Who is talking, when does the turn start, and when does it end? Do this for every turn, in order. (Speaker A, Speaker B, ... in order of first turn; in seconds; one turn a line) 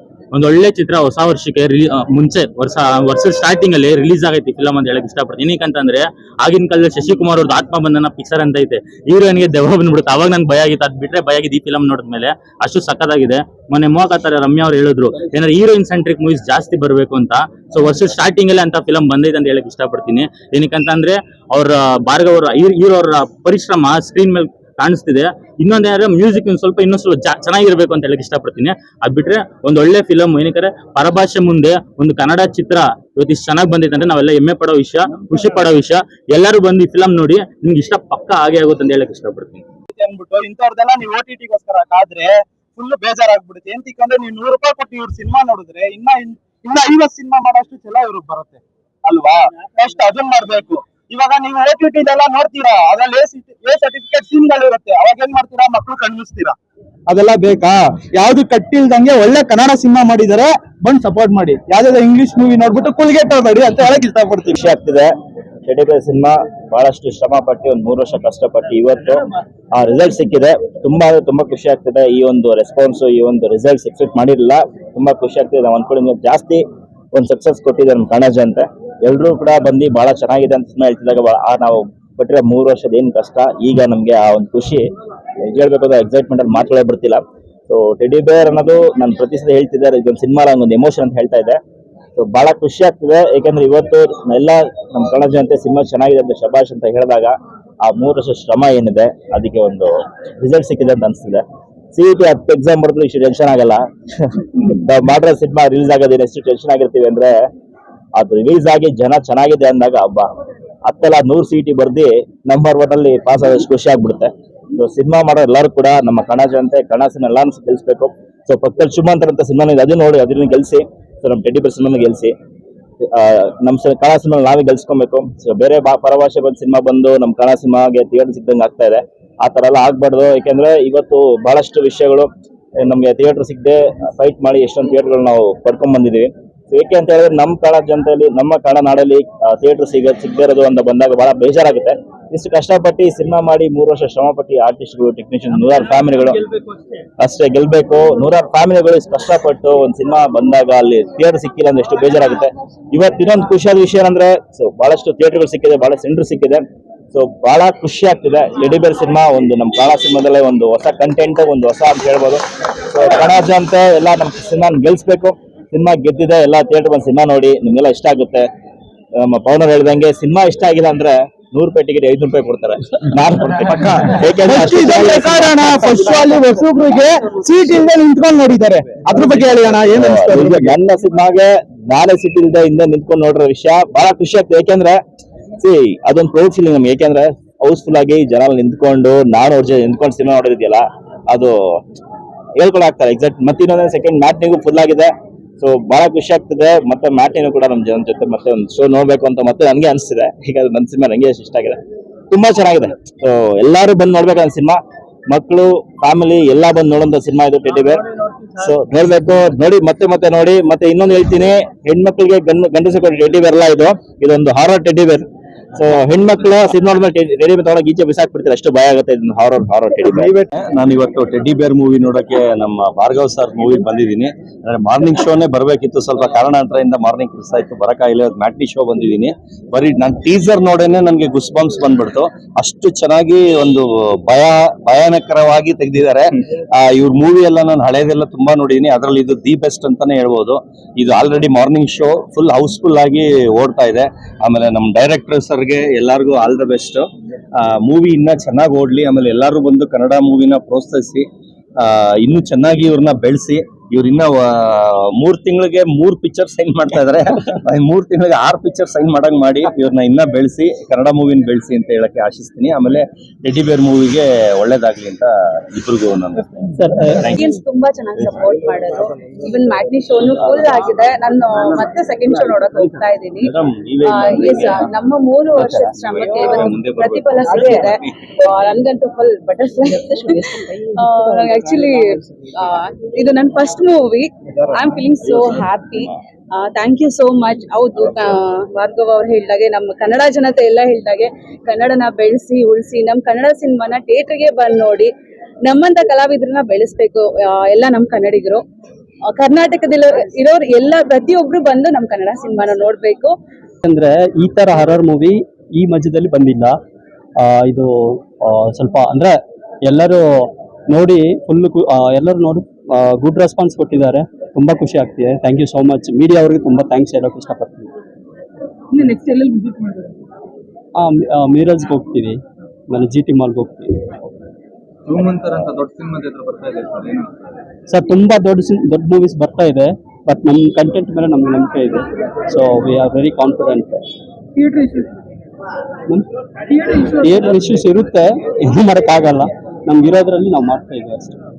Speaker A: 0.3-39.6
Speaker B: 39.9-56.5
Speaker B: 57.1-64.6
Speaker C: 64.5-65.1
Speaker C: 65.7-84.8
Speaker C: 85.4-91.6
Speaker C: 92.2-101.4
Speaker C: 101.9-107.3
Speaker C: 108.2-110.3
Speaker C: 110.8-122.3
Speaker C: 123.0-132.3
Speaker C: 132.8-146.4
Speaker C: 147.2-168.5
Speaker C: 169.2-176.3
Speaker B: 174.4-180.7
Speaker C: 179.8-185.0
Speaker C: 185.6-191.5
Speaker C: 192.6-201.8
Speaker C: 202.3-208.0
Speaker C: 208.6-220.3
Speaker B: 220.1-220.5
Speaker D: 220.5-251.3
Speaker D: 251.8-267.5
Speaker E: 266.8-267.2
Speaker F: 267.3-273.5
Speaker D: 270.6-270.9
Speaker E: 272.3-272.5
Speaker D: 273.4-275.0
Speaker F: 274.0-282.0
Speaker D: 275.5-278.3
Speaker F: 282.5-286.1
Speaker C: 285.2-286.0
Speaker F: 286.8-295.1
Speaker F: 295.6-298.6
Speaker F: 299.3-303.3
Speaker E: 303.8-306.8
Speaker E: 307.4-317.9
Speaker E: 320.9-323.9
Speaker G: 325.1-327.2
Speaker E: 327.9-334.0
Speaker E: 336.9-341.4